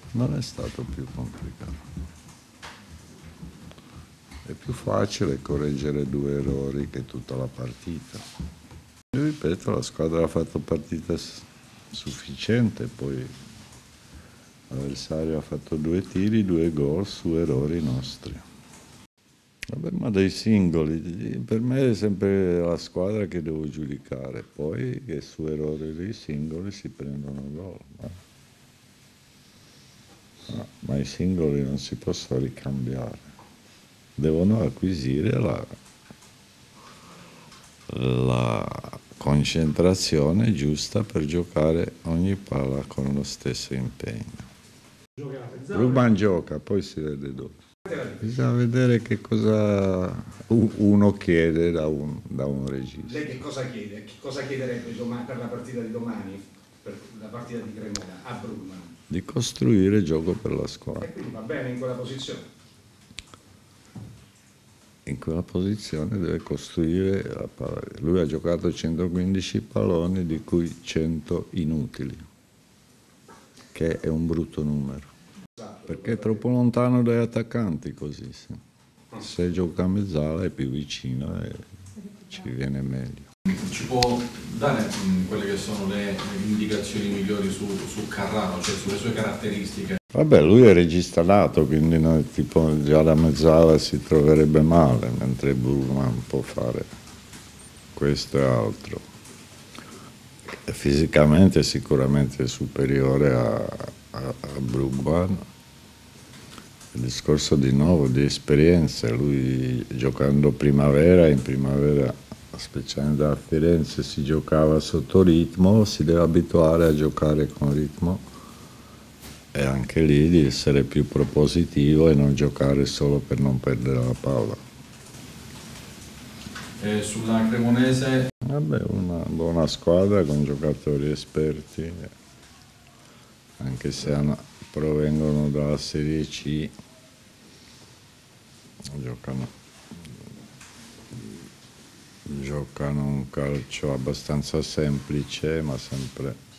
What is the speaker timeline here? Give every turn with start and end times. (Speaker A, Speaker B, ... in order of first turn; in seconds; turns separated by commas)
Speaker A: 0.1-1.8, Speaker A: 4.4-8.2, Speaker A: 9.1-13.3, Speaker A: 14.7-18.4, Speaker A: 19.7-28.2, Speaker A: 30.5-33.3, Speaker A: 34.2-35.7, Speaker A: 37.9-44.5, Speaker A: 45.6-47.6, Speaker A: 48.1-53.3, Speaker B: 53.1-58.9, Speaker A: 59.1-61.1, Speaker B: 61.0-62.4, Speaker A: 65.0-72.2, Speaker A: 73.7-75.1, Speaker A: 75.8-78.6, Speaker A: 79.1-83.3, Speaker C: 83.5-90.0, Speaker A: 90.1-96.9, Speaker A: 97.9-99.0, Speaker A: 100.5-105.4, Speaker A: 106.9-118.2, Speaker A: 119.5-124.6, Speaker C: 126.8-128.3, Speaker A: 128.4-132.1, Speaker A: 133.6-136.7, Speaker A: 138.9-139.5, Speaker A: 142.2-146.4